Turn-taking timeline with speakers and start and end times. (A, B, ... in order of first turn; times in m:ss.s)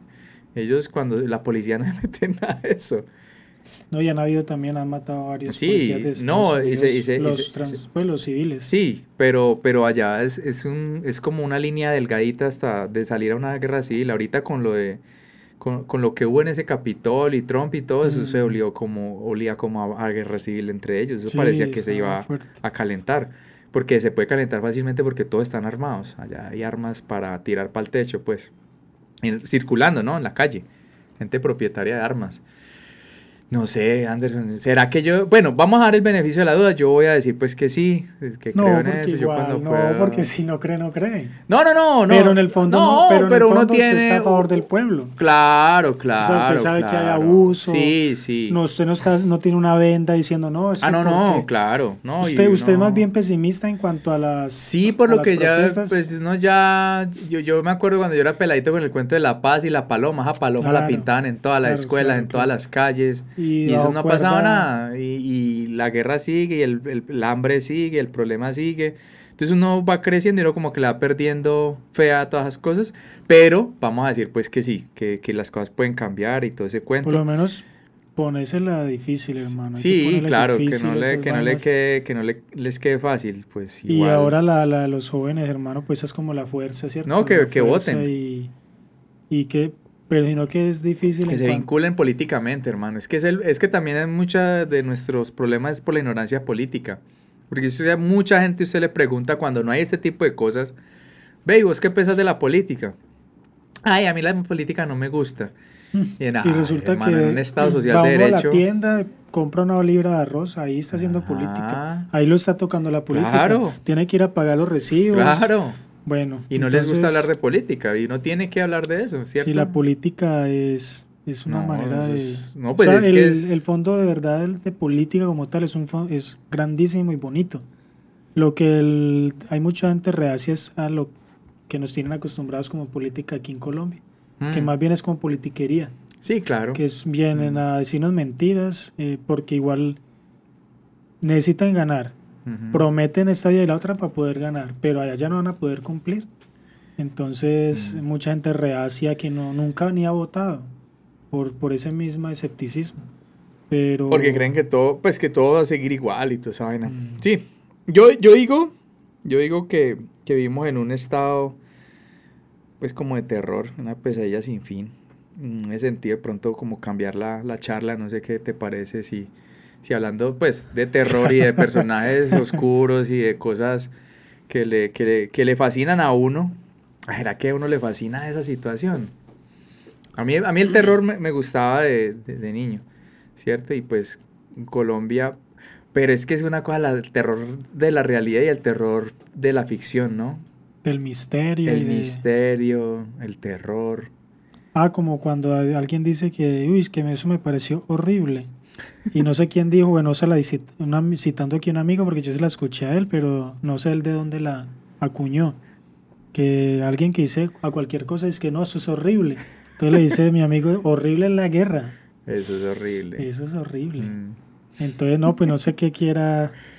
0:00.5-0:03.1 A
0:03.9-0:08.7 B
0:05.5-0:07.8 A
0:08.6-0:15.0 A
0:15.6-0:28.5 A
0:18.0-0:18.6 B
0:21.2-0:22.5 B
0:29.2-0:30.6 A
0:31.2-0:32.4 A
0:33.5-0:40.3 A
0:38.5-0:41.3 B
0:41.5-0:44.6 A
0:42.1-0:45.1 B
0:45.2-0:48.6 A
0:46.2-0:48.0 B
0:48.5-0:51.5 B
0:50.8-0:53.1 A
0:52.2-0:56.0 B
0:54.6-1:17.2 A
1:00.6-1:01.1 B
1:01.6-1:02.5 B
1:03.4-1:04.7 B
1:17.0-1:17.6 B
1:18.2-1:21.7 B
1:19.4-1:24.3 A
1:23.9-1:28.5 B
1:27.0-1:28.1 A
1:29.3-1:31.7 B
1:31.2-1:40.7 A
1:41.4-1:43.0 A
1:43.8-1:45.5 A
1:45.9-1:55.5 B
1:46.2-1:48.6 A
1:50.9-1:52.1 A
1:53.1-1:53.8 A
1:55.1-1:55.8 A
1:56.0-1:57.3 B
1:56.5-1:59.7 A
1:59.4-2:07.6 B
2:01.5-2:03.6 A
2:08.4-2:11.1 B
2:11.7-2:15.9 B
2:14.4-2:14.7 A
2:16.2-2:16.8 A
2:16.7-2:20.0 B
2:17.3-2:17.6 A
2:21.2-2:22.2 B
2:22.4-2:22.8 A
2:22.7-2:26.3 B
2:27.0-2:30.7 B
2:27.7-2:28.0 A
2:31.3-2:33.0 B
2:33.7-2:34.5 B
2:34.1-2:41.6 A
2:36.9-2:37.2 B
2:42.8-2:49.3 A
2:49.8-2:53.9 A
2:54.5-2:59.1 A
3:00.2-3:02.8 A
3:03.4-3:05.4 A
3:05.9-3:10.4 A
3:10.8-3:12.2 B
3:11.6-3:14.1 A
3:14.7-3:18.5 B
3:19.1-3:25.6 B
3:26.3-3:31.9 B
3:32.2-3:33.3 A
3:33.2-3:34.1 B
3:34.0-3:34.4 A
3:34.8-3:36.6 B